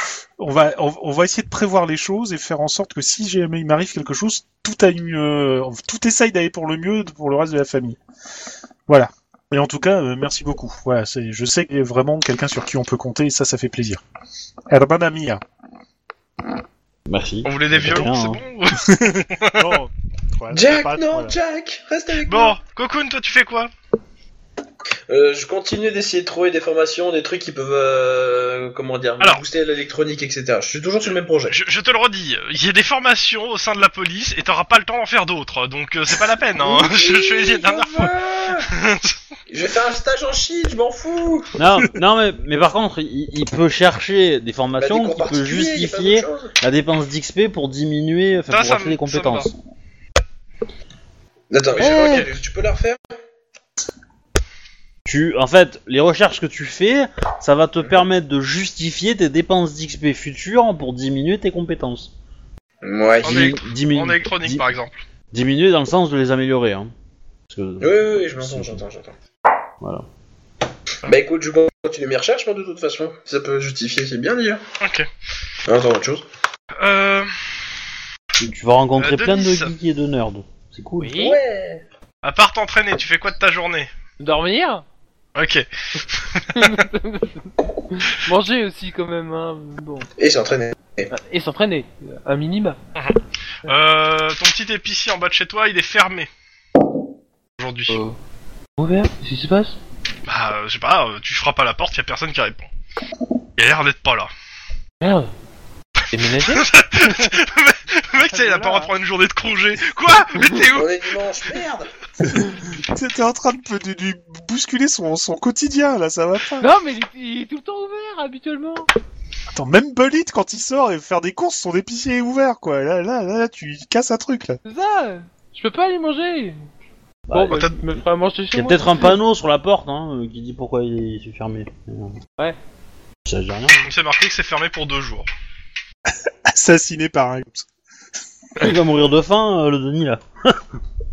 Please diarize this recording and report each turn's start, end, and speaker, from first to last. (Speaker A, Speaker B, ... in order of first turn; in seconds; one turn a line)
Speaker A: 0.4-8.0
Speaker A: 8.9-14.0
Speaker A: 14.7-15.4
Speaker B: 17.1-18.4
Speaker C: 17.4-19.8
Speaker A: 18.9-21.3
Speaker D: 20.5-22.6
Speaker C: 22.2-23.7
Speaker D: 25.1-31.6
Speaker C: 31.5-39.1
Speaker D: 36.7-38.7
Speaker D: 39.5-41.5
Speaker B: 41.6-49.5
Speaker D: 44.8-46.5
Speaker C: 48.5-49.5
Speaker D: 51.5-53.0
Speaker B: 51.8-52.3
Speaker C: 51.8-52.2
Speaker B: 55.0-62.1
Speaker D: 62.8-63.5
Speaker B: 63.2-64.7
Speaker C: 63.2-65.0
Speaker B: 65.3-66.9
Speaker B: 67.5-68.8
Speaker D: 67.8-69.1
Speaker D: 71.0-74.6
Speaker C: 74.8-75.1
Speaker D: 75.7-76.2
Speaker C: 76.8-77.3
Speaker B: 78.4-81.1
Speaker C: 79.0-79.7
Speaker E: 81.0-81.4
Speaker D: 81.2-81.8
Speaker C: 82.2-83.9
Speaker E: 84.2-84.8
Speaker C: 85.3-86.8
Speaker E: 86.5-90.1
Speaker D: 90.2-91.1
Speaker E: 91.1-92.8
Speaker C: 93.0-96.3
Speaker C: 97.6-98.0
Speaker E: 97.9-98.2
Speaker E: 98.8-99.8
Speaker C: 100.3-102.7
Speaker C: 103.6-104.3
Speaker E: 105.0-105.3
Speaker E: 106.1-106.7
Speaker C: 106.4-111.2
Speaker E: 108.3-108.9
Speaker D: 110.7-111.9
Speaker A: 112.2-116.7
Speaker E: 116.6-118.9
Speaker A: 119.5-124.6
Speaker E: 124.6-126.6
Speaker B: 127.3-127.6
Speaker E: 127.3-129.2
Speaker B: 128.5-132.2
Speaker B: 133.2-133.9
Speaker C: 133.8-135.3
Speaker A: 136.1-137.7
Speaker B: 138.6-140.6